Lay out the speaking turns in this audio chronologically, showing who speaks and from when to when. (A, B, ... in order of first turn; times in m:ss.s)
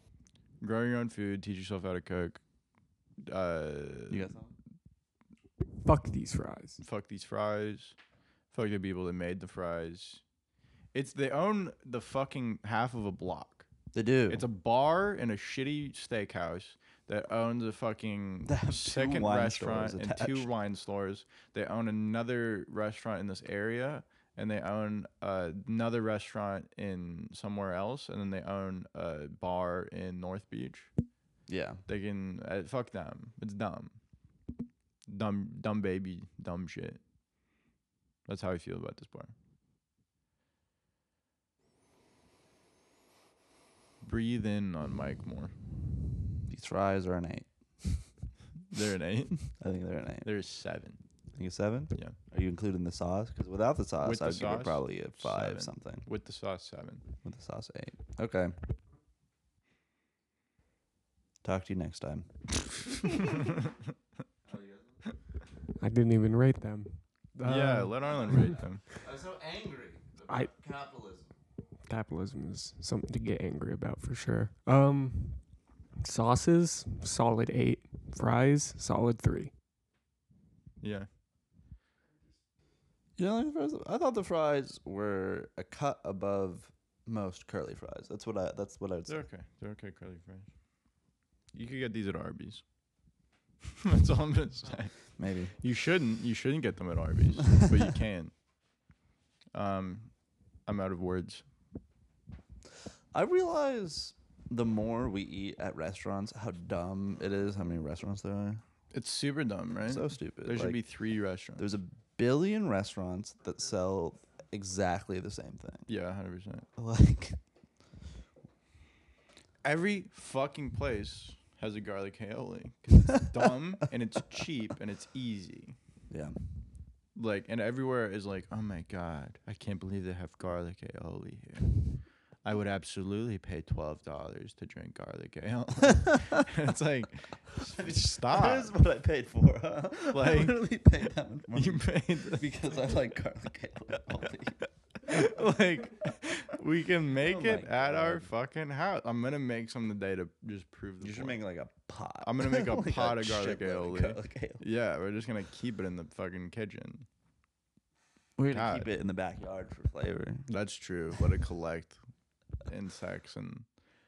0:00.6-0:02.4 A
0:03.3-0:04.3 A
0:04.1-0:04.5 B
0:05.8-0:06.8 C
0:06.8-0:08.0 A
0:08.5-0:10.2 A
0:10.9-0:13.7 A
0:13.9-0:14.4 B
0:14.3-0:30.9 A
0:18.4-0:20.5 B
0:31.5-0:31.8 B
0:31.9-0:34.0 A
0:35.1-0:37.0 A
0:38.3-0:39.3 A
0:44.0-0:45.5 A
0:46.5-0:48.0 B
0:48.7-0:49.4 A
0:49.4-0:50.3 B
0:50.2-0:51.0 A
0:51.4-0:56.1 B
0:54.0-0:57.0 A
0:57.2-0:58.5 B
1:01.4-1:03.6 B
1:04.4-1:05.0 B
1:05.8-1:08.6 C
1:07.4-1:08.8 A
1:09.0-1:11.3 B
1:11.9-1:15.4 C
1:16.0-1:19.5 C
1:20.8-1:21.1 A
1:23.2-1:29.2 B
1:29.1-1:30.5 A
1:31.5-1:32.6 A
1:33.8-1:35.0 A
1:35.2-1:35.5 B
1:35.6-1:38.3 A
1:39.5-1:40.1 A
1:40.7-1:41.4 A
1:43.1-1:48.6 B
1:48.9-1:51.6 A
1:49.8-1:50.8 B
1:51.6-1:55.9 B
1:55.9-1:56.6 A
1:56.8-1:57.4 B
1:59.6-2:05.8 A
2:06.1-2:06.4 B
2:07.2-2:11.7 A
2:12.4-2:18.7 A
2:17.8-2:25.5 B
2:20.1-2:20.7 A
2:21.5-2:22.5 A
2:25.0-2:31.4 A
2:27.2-2:28.3 B
2:31.0-2:34.6 B
2:32.2-2:37.1 A
2:38.4-2:40.5 B
2:38.5-2:38.9 A
2:40.5-2:42.0 A
2:42.7-2:43.7 A